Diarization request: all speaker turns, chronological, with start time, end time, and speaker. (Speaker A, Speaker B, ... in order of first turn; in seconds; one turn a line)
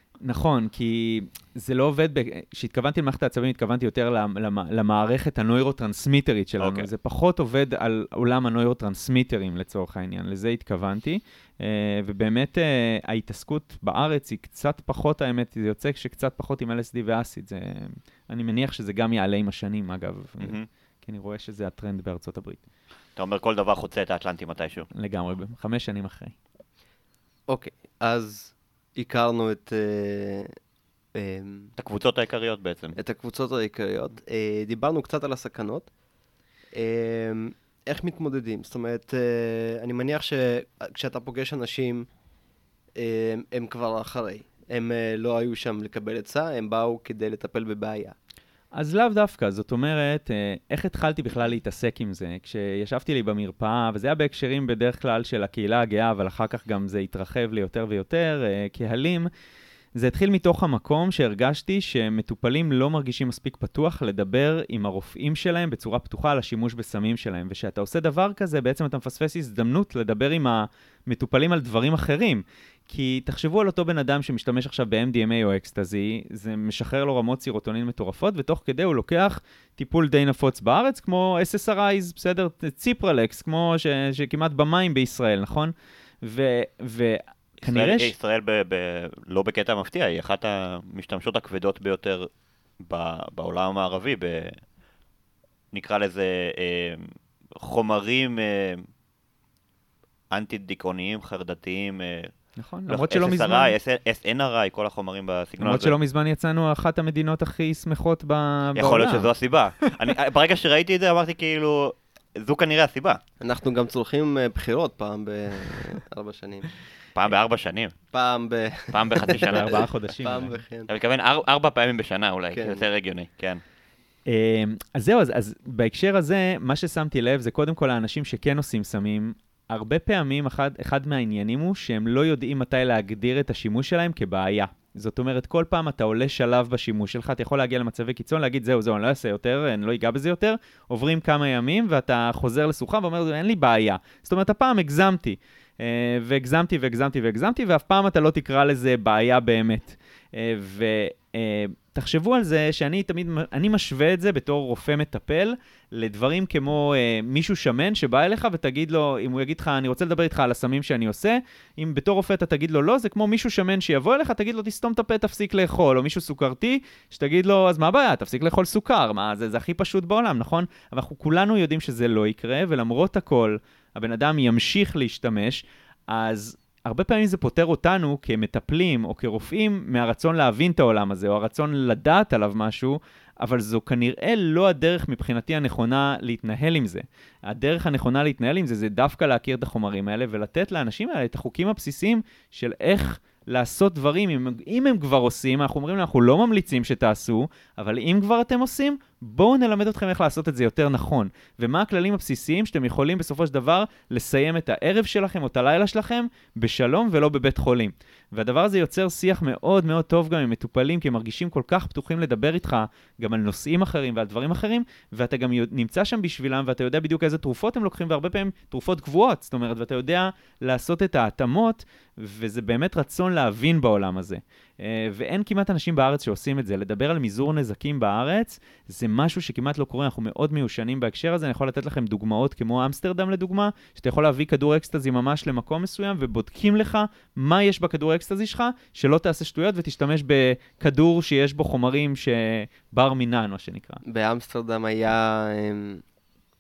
Speaker A: 0.2-22.6
Speaker B: 6.6-6.9
Speaker B: 20.4-20.7
Speaker B: 23.2-24.9
Speaker A: 24.9-26.3
Speaker C: 27.5-30.6
Speaker C: 31.1-31.7
Speaker B: 31.8-33.0
Speaker C: 33.0-35.9
Speaker C: 36.7-42.1
Speaker C: 43.0-48.1
Speaker A: 48.8-59.3
Speaker A: 60.0-88.1
Speaker B: 87.6-92.3
Speaker B: 92.8-94.6
Speaker B: 95.7-98.8
Speaker B: 100.3-102.3
Speaker A: 102.6-103.8
Speaker B: 102.9-106.0
Speaker A: 105.6-109.3
Speaker B: 108.8-113.2
Speaker C: 113.4-116.7
Speaker B: 117.2-117.9
Speaker C: 118.1-120.9
Speaker B: 118.9-119.9
Speaker A: 119.3-120.6
Speaker B: 120.9-123.6
Speaker C: 122.5-122.8
Speaker A: 124.3-244.0
Speaker C: 244.1-246.0